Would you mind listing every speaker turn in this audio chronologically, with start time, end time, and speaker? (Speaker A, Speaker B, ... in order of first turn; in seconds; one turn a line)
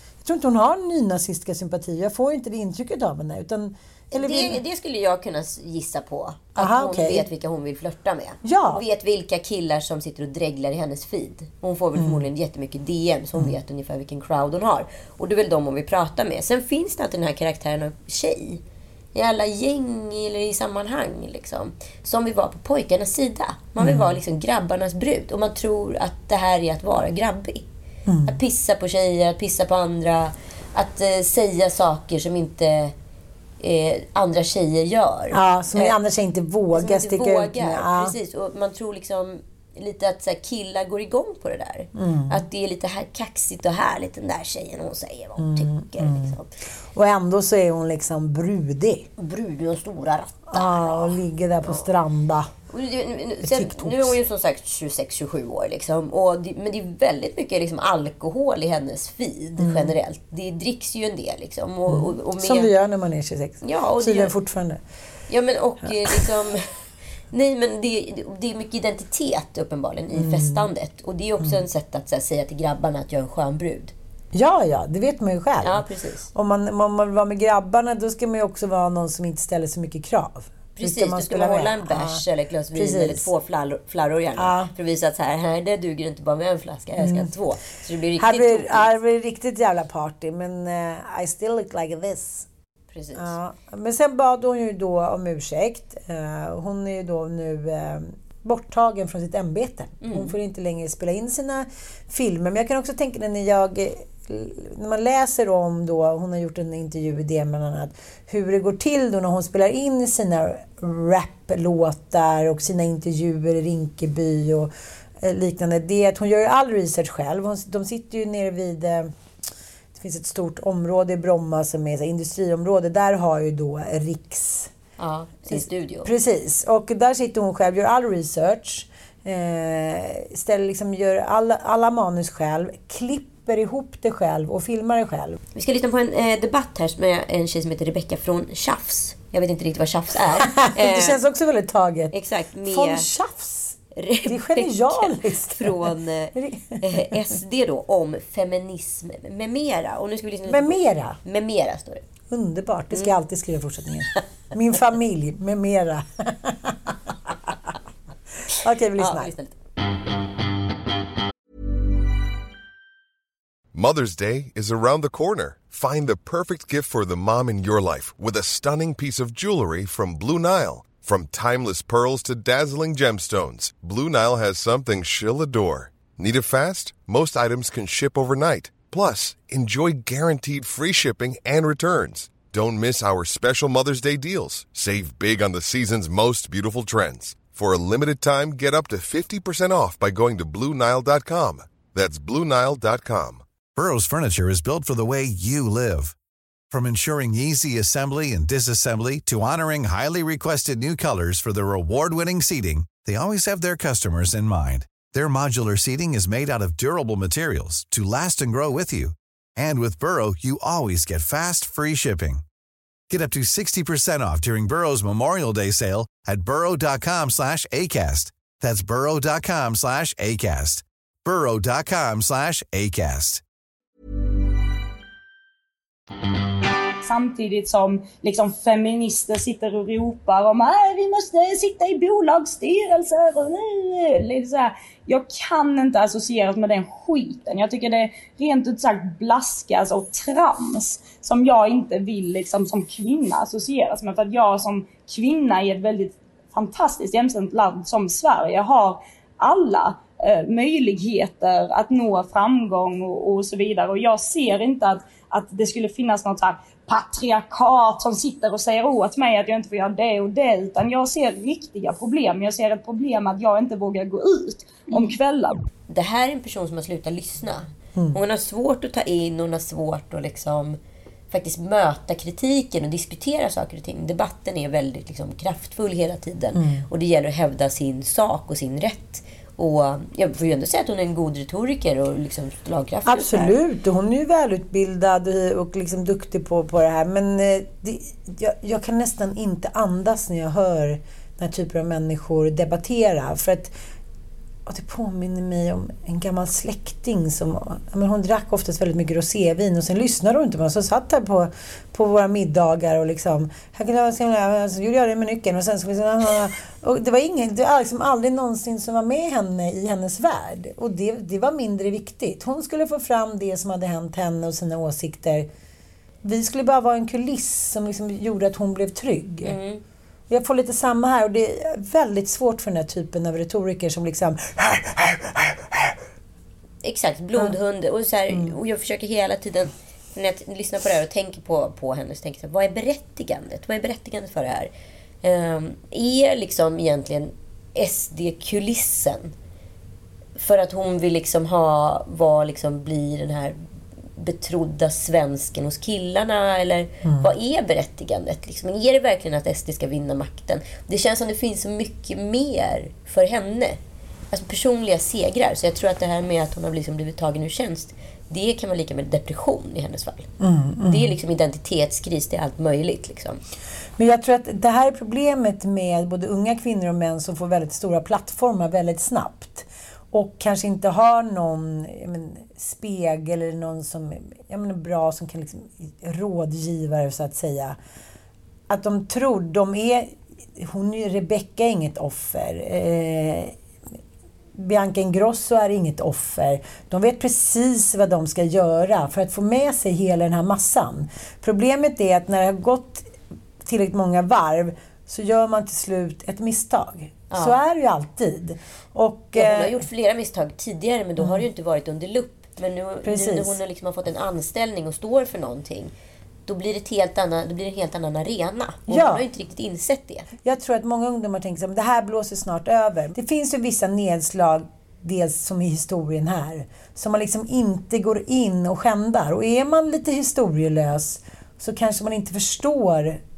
Speaker A: 0.2-4.6
Speaker B: 4.1-18.6
Speaker A: 6.6-7.3
Speaker A: 8.4-8.8
Speaker A: 12.0-12.3
Speaker B: 19.1-27.7
Speaker A: 23.8-24.1
Speaker A: 28.1-28.4
Speaker B: 28.3-32.9
Speaker B: 33.6-36.0
Speaker A: 35.3-38.2
Speaker B: 36.7-46.5
Speaker A: 42.0-42.4
Speaker A: 45.4-46.4
Speaker A: 46.9-49.1
Speaker B: 49.2-51.9
Speaker A: 50.5-52.5
Speaker B: 52.7-62.7
Speaker A: 53.4-54.2
Speaker A: 59.6-59.9
Speaker A: 61.9-64.8
Speaker B: 63.6-64.3
Speaker B: 65.3-66.7
Speaker B: 67.3-73.9
Speaker A: 70.1-70.7
Speaker A: 74.3-82.2
Speaker B: 75.6-76.3
Speaker B: 80.8-89.0
Speaker A: 82.7-83.3
Speaker A: 84.4-84.7
Speaker A: 87.0-87.3
Speaker A: 88.2-92.5
Speaker B: 92.9-93.4
Speaker A: 93.2-119.1
Speaker B: 100.0-100.3
Speaker A: 120.0-124.7
Speaker B: 125.0-126.1
Speaker A: 125.5-135.4
Speaker B: 135.6-141.2
Speaker A: 140.4-147.2
Speaker B: 142.1-143.1
Speaker B: 143.9-152.1
Speaker A: 150.5-151.2
Speaker A: 152.3-157.5
Speaker B: 158.5-159.5
Speaker A: 158.5-159.3
Speaker C: 163.7-193.4
Speaker D: 193.8-196.2
Speaker D: 196.7-212.4
Speaker D: 213.1-223.4
Speaker E: 227.0-265.6
Speaker B: 265.9-270.8
Speaker B: 271.3-283.6
Speaker A: 276.6-276.9
Speaker A: 283.1-293.7
Speaker A: 294.7-315.5
Speaker A: 316.2-319.5
Speaker B: 319.4-319.8
Speaker A: 320.3-325.9
Speaker B: 326.8-334.7
Speaker B: 335.2-339.3
Speaker B: 340.4-343.6
Speaker B: 344.2-353.8
Speaker B: 354.3-360.3
Speaker A: 360.4-361.1
Speaker B: 360.8-363.4
Speaker A: 364.0-377.8
Speaker A: 378.7-383.6
Speaker A: 384.6-393.1
Speaker A: 393.6-399.8
Speaker B: 397.3-397.6
Speaker B: 399.4-405.9
Speaker A: 403.0-403.6
Speaker B: 406.5-410.3
Speaker A: 408.9-409.3
Speaker A: 410.4-423.2